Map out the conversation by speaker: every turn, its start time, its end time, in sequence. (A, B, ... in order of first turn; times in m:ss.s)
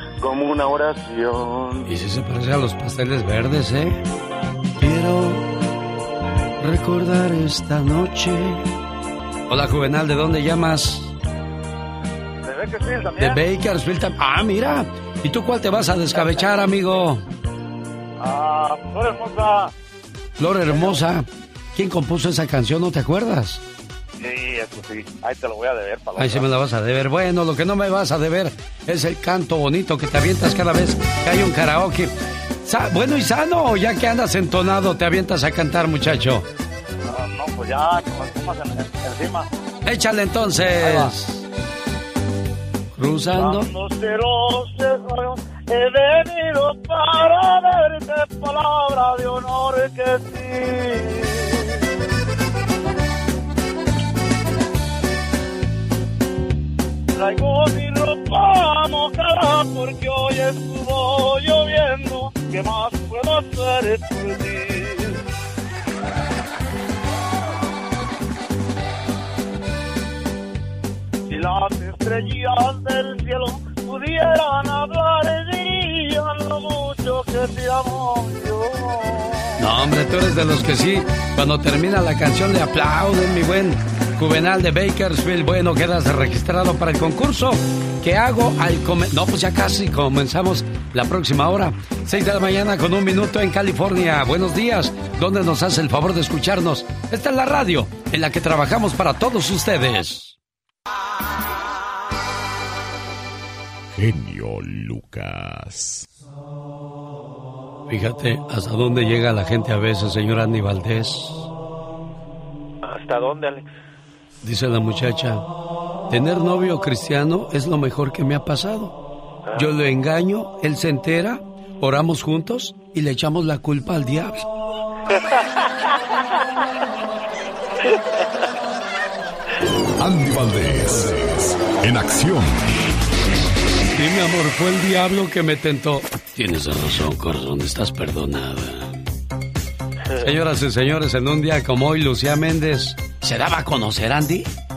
0:01.9-0:04.0 A
0:04.8-0:05.4 A
0:06.6-0:08.7 A
0:09.5-0:11.1 A
0:12.4-0:13.4 B
0:13.2-0:17.2 A
0:18.2-0:19.7 B
0:20.4-0:23.6 A
0:20.7-0:21.0 B
0:24.2-0:26.5 B
0:26.2-0:32.1 A
0:32.6-0:36.4 A
0:37.1-0:39.5 B
0:39.9-0:41.4 A
0:40.8-0:41.1 B
0:43.0-0:43.7 A
0:43.3-0:51.6 B
0:57.2-1:05.2 B
1:11.3-1:19.5 B
1:19.6-1:40.4 A
1:44.0-1:46.1 C
1:47.9-1:51.5 A
1:52.8-1:53.6 B
1:54.4-1:55.5 A
1:56.1-1:59.0 A
1:59.6-2:04.5 A
2:10.0-2:12.7 C
2:14.0-2:18.9 A
2:20.2-2:24.5 A